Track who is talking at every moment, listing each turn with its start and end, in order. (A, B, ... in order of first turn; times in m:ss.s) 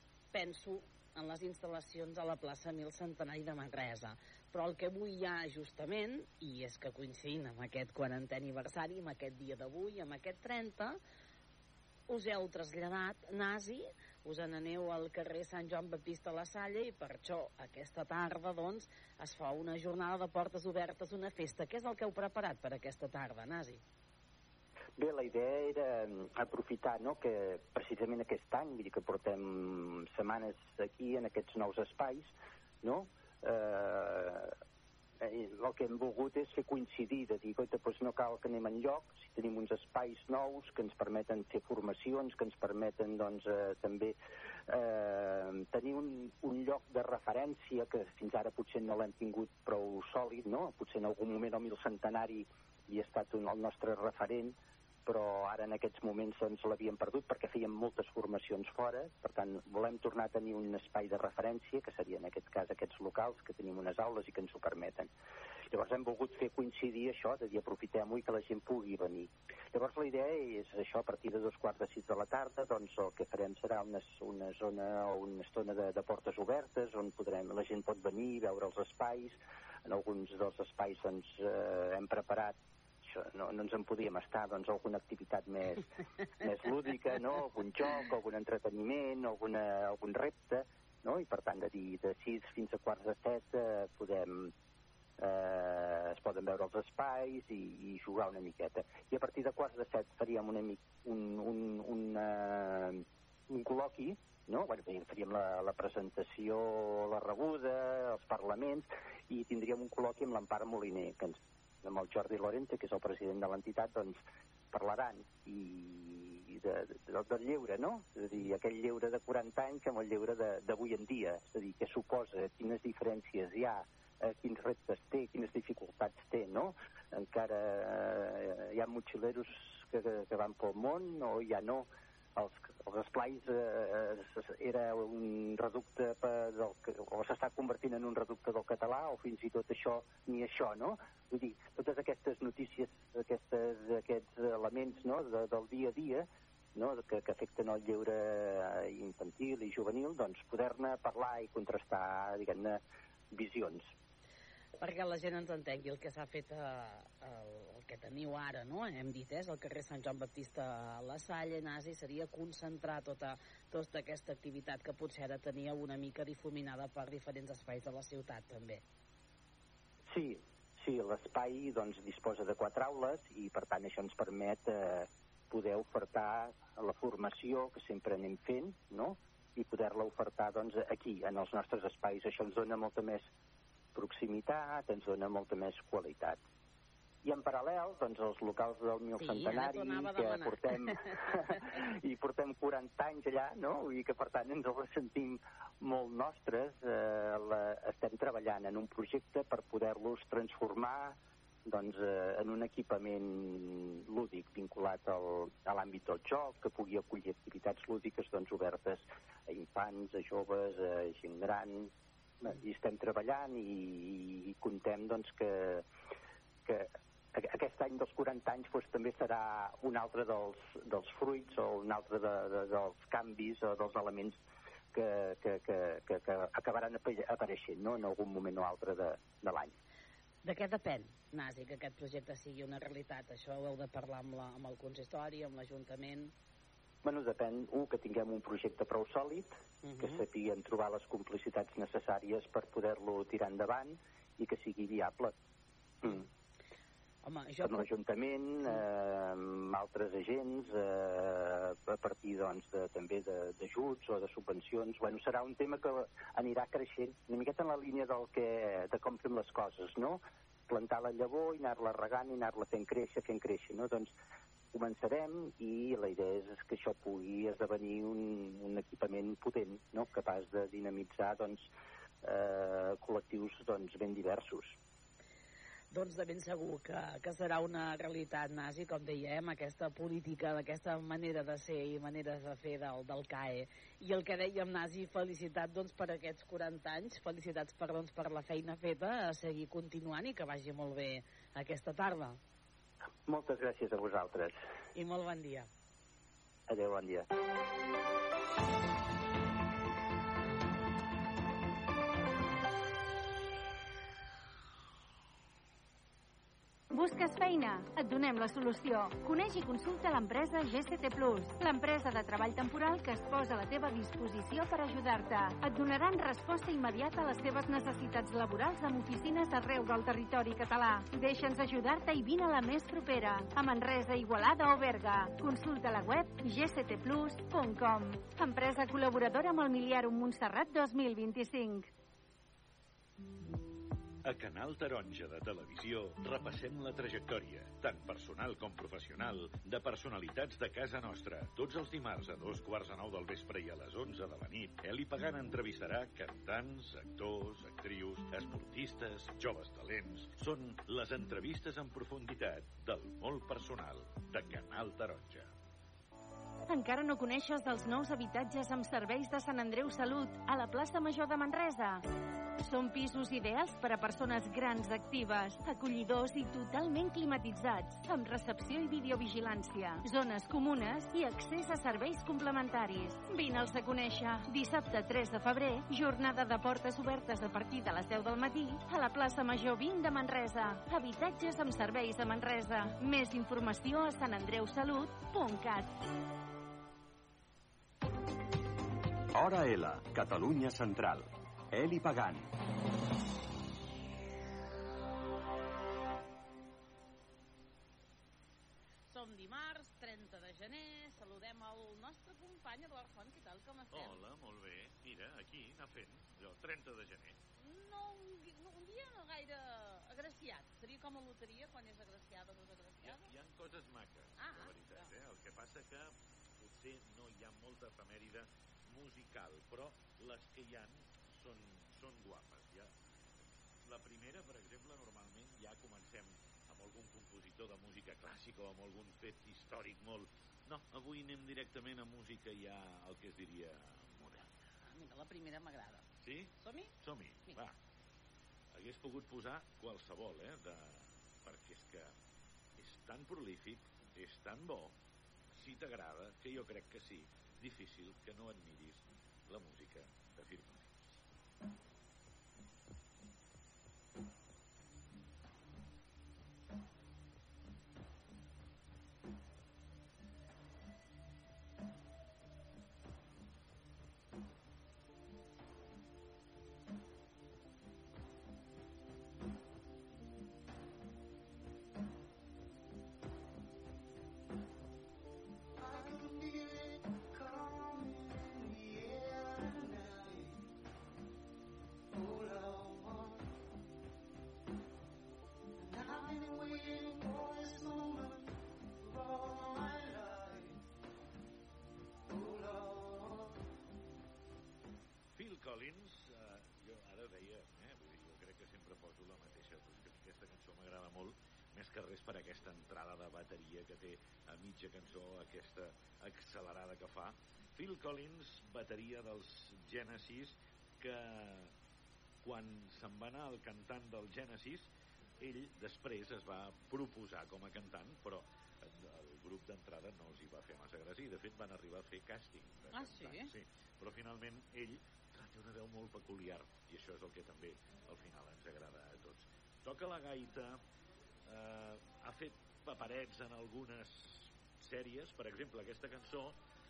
0:00.3-0:11.0 A
0:12.1-0:23.8 A
0:25.0-0:34.5 B
0:35.2-0:44.2 B
0:44.7-1:05.1 B
1:05.7-1:25.9 B
1:26.4-1:34.5 B
1:35.2-1:54.2 B
1:54.7-2:33.9 B
2:34.8-2:48.8 A
2:50.1-3:03.3 B
3:03.9-3:06.4 B
3:07.2-3:35.8 B
3:09.2-3:11.1 A
3:36.6-3:44.4 B
3:44.9-3:49.8 B
3:50.4-3:56.3 A
3:57.0-4:05.3 B
3:59.8-4:00.2 A
4:07.2-4:07.8 A
4:07.6-4:24.1 B
4:24.7-4:31.7 B
4:32.2-4:34.8 B
4:35.9-4:52.4 A
4:53.2-4:54.6 B
4:54.9-4:55.7 A
4:56.7-4:57.3 B
5:06.9-5:31.9 C
5:34.2-5:55.5 D
5:56.7-6:02.0 C
6:02.6-6:25.9 C
6:29.3-6:32.5 E
6:39.1-6:44.2 A
6:43.9-6:47.4 D
6:47.6-6:53.3 A
6:53.0-7:02.9 D
6:54.4-6:55.1 A
7:03.8-7:14.5 D
7:14.8-7:16.0 A
7:16.2-7:17.7 D
7:16.6-7:16.9 A
7:18.7-7:22.1 D
7:22.8-7:25.0 D
7:25.5-7:31.2 D
8:15.3-8:31.7 D
8:32.4-8:50.8 D
8:42.9-8:43.5 A
8:51.4-8:56.6 D